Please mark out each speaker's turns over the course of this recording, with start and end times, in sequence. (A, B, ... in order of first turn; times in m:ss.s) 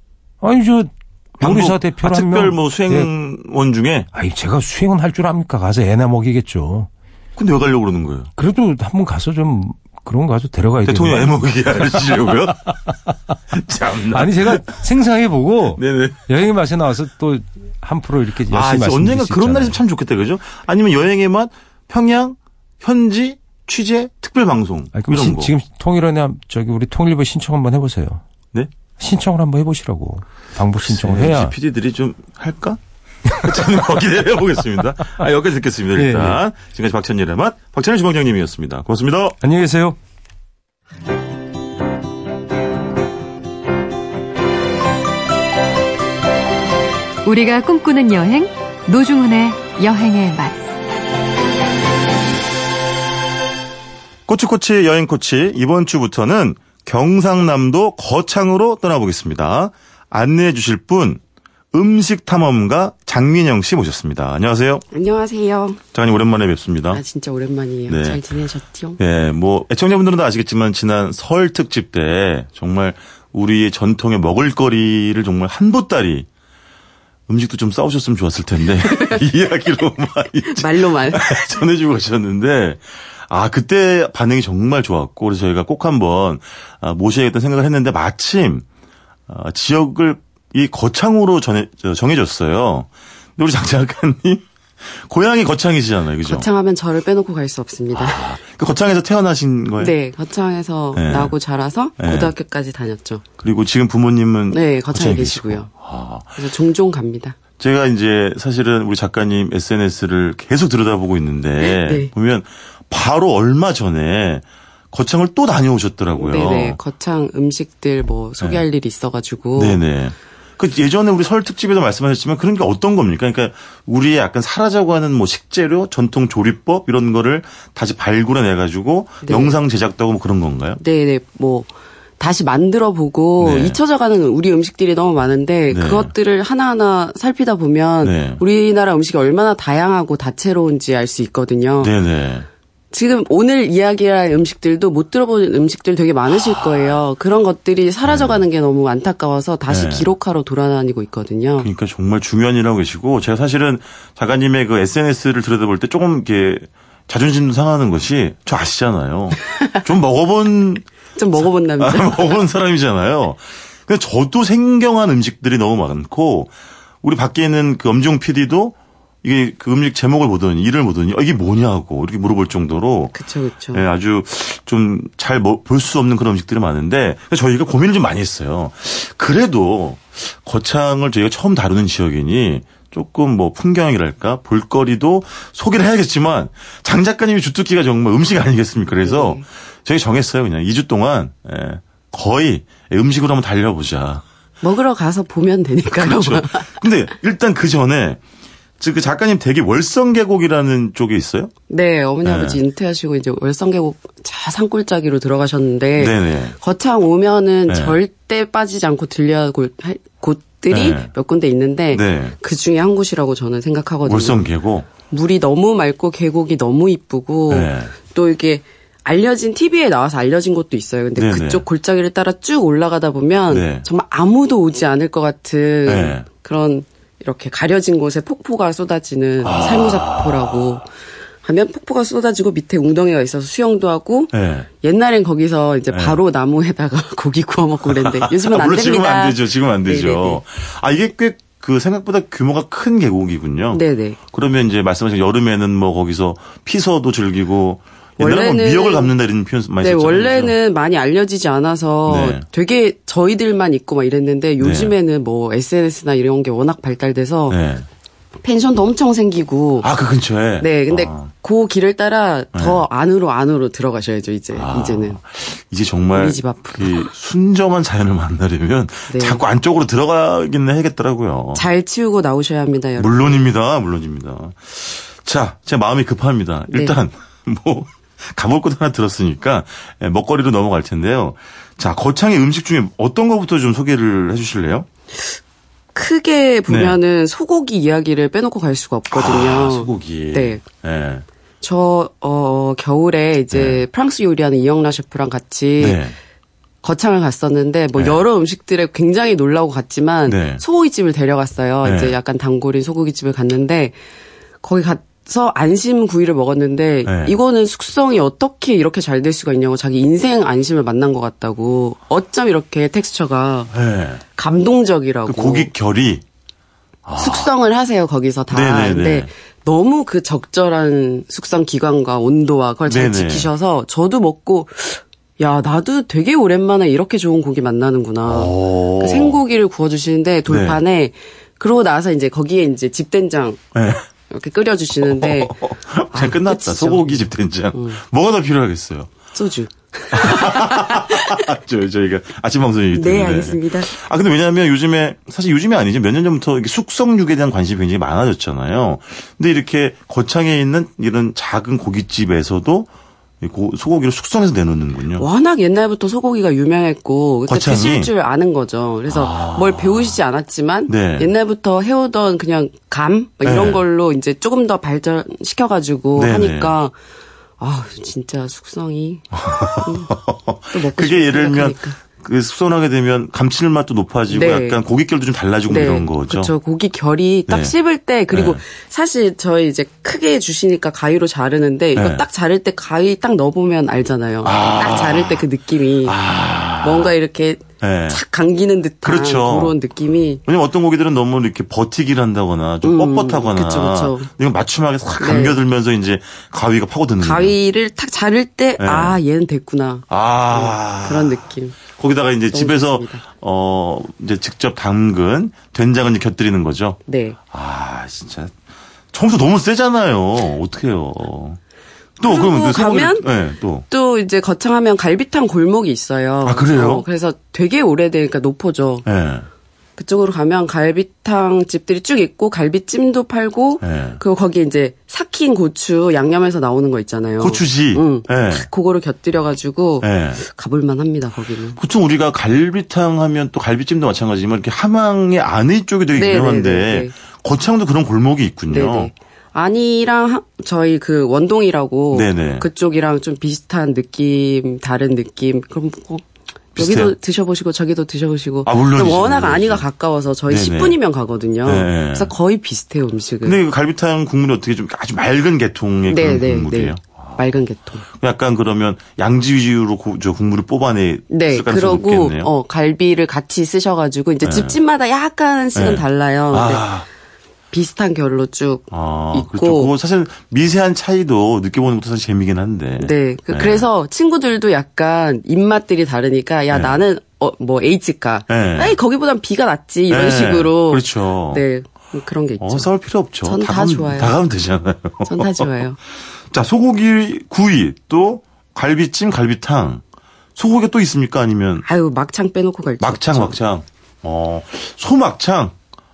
0:00.4-0:03.1 A
0:01.4-0:04.1 B
0:04.1-0:06.9 A
0:07.4-0:08.3 B
0:08.4-0:12.0 A
0:10.8-0:12.7 B
0:13.5-0:14.6 B
0:14.1-0:19.8 A
0:15.8-0:16.2 B
0:18.5-0:25.5 B
0:24.9-0:28.2 A
0:29.0-0:31.5 A
0:30.8-0:39.4 B
0:36.0-0:36.4 A
0:39.4-0:40.0 A
0:47.2-0:50.6 C
0:54.3-1:01.2 B
1:01.7-1:04.8 B
1:04.9-1:05.8 D
1:05.9-1:07.0 B
1:06.9-1:09.0 D
1:07.9-1:08.2 B
1:09.0-1:16.3 B
1:17.3-1:28.6 B
1:20.5-1:21.3 D
1:29.3-1:36.5 B
1:36.2-1:38.3 D
1:37.9-1:39.9 B
1:39.8-1:43.2 D
1:40.9-1:41.3 B
1:42.0-1:42.3 B
1:43.4-1:46.4 B
1:44.5-1:45.7 D
1:46.4-1:47.4 D
1:47.6-1:56.8 B
1:51.6-1:52.1 D
1:56.2-1:59.8 D
1:59.6-2:10.8 B
2:09.2-2:09.6 D
2:10.8-2:21.9 D
2:13.4-2:13.8 B
2:15.7-2:16.1 B
2:18.0-2:18.4 B
2:21.8-2:22.5 B
2:22.9-2:31.7 D
2:26.3-2:27.0 B
2:28.0-2:28.4 B
2:29.7-2:30.1 B
2:31.6-2:40.8 B
2:41.2-2:42.3 D
2:41.8-2:46.5 B
2:47.0-2:53.2 B
2:53.1-2:53.8 D
2:53.7-3:14.2 B
3:09.0-3:09.4 D
3:14.6-3:16.7 D
3:16.0-3:18.2 B
3:18.8-3:21.5 B
3:21.7-3:50.9 D
3:22.2-3:22.6 B
3:26.0-3:26.5 B
3:27.7-3:28.0 B
3:30.7-3:31.1 B
3:31.9-3:32.4 B
3:34.0-3:34.9 B
3:37.5-3:37.9 B
3:41.2-3:41.6 B
3:43.5-3:43.8 B
3:45.8-3:46.2 B
3:49.4-3:50.8 B
3:51.4-4:00.4 D
3:54.3-3:54.7 B
3:55.9-3:56.2 B
3:57.9-4:10.5 B
4:03.7-4:04.2 D
4:08.2-4:09.1 D
4:09.8-4:17.6 D
4:12.1-4:12.4 B
4:14.6-4:14.9 B
4:17.5-4:17.8 B
4:18.4-4:19.9 D
4:19.8-4:21.3 B
4:20.6-4:25.2 D
4:22.5-4:22.8 B
4:24.5-4:31.6 B
4:26.2-4:27.0 D
4:29.1-4:29.4 D
4:31.5-4:33.5 D
4:33.0-4:44.9 B
4:45.9-4:50.6 D
4:46.7-4:47.0 B
4:49.1-4:51.2 B
4:51.6-4:56.0 D
4:53.5-4:53.8 B
4:55.8-4:56.1 B
4:56.8-5:04.0 D
5:00.2-5:00.6 B
5:01.8-5:02.1 B
5:04.6-5:13.7 D
5:07.0-5:07.4 B
5:13.7-5:14.2 B
5:14.4-5:15.7 D
5:15.3-5:16.2 B
5:17.0-5:17.5 B
5:17.2-5:33.6 D
5:18.5-5:19.3 B
5:22.9-5:23.5 B
5:28.2-5:29.4 B
5:30.5-5:30.8 B
5:33.7-5:34.0 B
5:34.3-5:35.6 D
5:35.0-5:39.1 B
5:36.1-5:37.2 D
5:39.3-5:41.5 D
5:40.1-5:52.9 B
5:42.9-5:43.9 D
5:53.4-5:55.3 B
5:55.2-6:06.9 D
5:57.5-5:58.1 B
5:59.1-6:00.2 B
6:00.9-6:01.3 B
6:03.4-6:03.8 B
6:06.2-6:06.7 B
6:07.6-6:09.3 D
6:09.3-6:16.5 B
6:09.8-6:10.1 D
6:10.7-6:12.0 D
6:14.3-6:14.8 D
6:15.7-6:26.2 D
6:17.5-6:17.7 B
6:18.3-6:18.6 B
6:21.9-6:22.2 B
6:24.4-6:25.4 B
6:26.0-6:27.1 B
6:26.8-6:30.4 D
6:27.8-6:28.2 B
6:29.0-6:29.7 B
6:30.4-6:37.5 B
6:32.8-6:34.3 D
6:35.2-6:35.6 D
6:37.2-6:41.8 D
6:38.8-6:39.2 B
6:40.1-6:47.0 B
6:42.5-6:43.2 D
6:47.1-6:47.4 D
6:47.5-6:48.5 B
6:49.1-6:51.6 B
6:52.2-6:53.8 B
6:52.2-6:53.2 D
6:53.9-6:59.0 D
6:56.4-6:57.0 B
6:59.0-6:59.4 B
7:00.0-7:11.8 D
7:03.8-7:04.2 B
7:07.4-7:08.7 B
7:10.0-7:10.4 B
7:11.8-7:19.1 B
7:16.1-7:17.1 D
7:18.7-7:26.2 D
7:22.1-7:22.7 B
7:26.7-7:27.2 B
7:26.7-7:33.6 D
7:28.6-7:29.8 B
7:30.5-7:31.0 B
7:31.6-7:32.3 B
7:33.4-7:37.4 B
7:36.1-7:38.0 D
7:38.1-7:42.5 B
7:41.3-7:46.9 D
7:44.4-7:44.8 B
7:45.8-7:47.1 B
7:47.7-7:49.9 D
7:48.9-7:53.8 B
7:53.0-8:02.9 D
7:56.7-7:57.0 B
7:58.5-7:59.0 B
8:00.1-8:01.6 B
8:02.6-8:05.8 B
8:03.4-8:04.3 D
8:05.2-8:06.0 D
8:06.4-8:10.0 B
8:10.6-8:11.8 B
8:11.8-8:13.6 D
8:13.0-8:15.7 B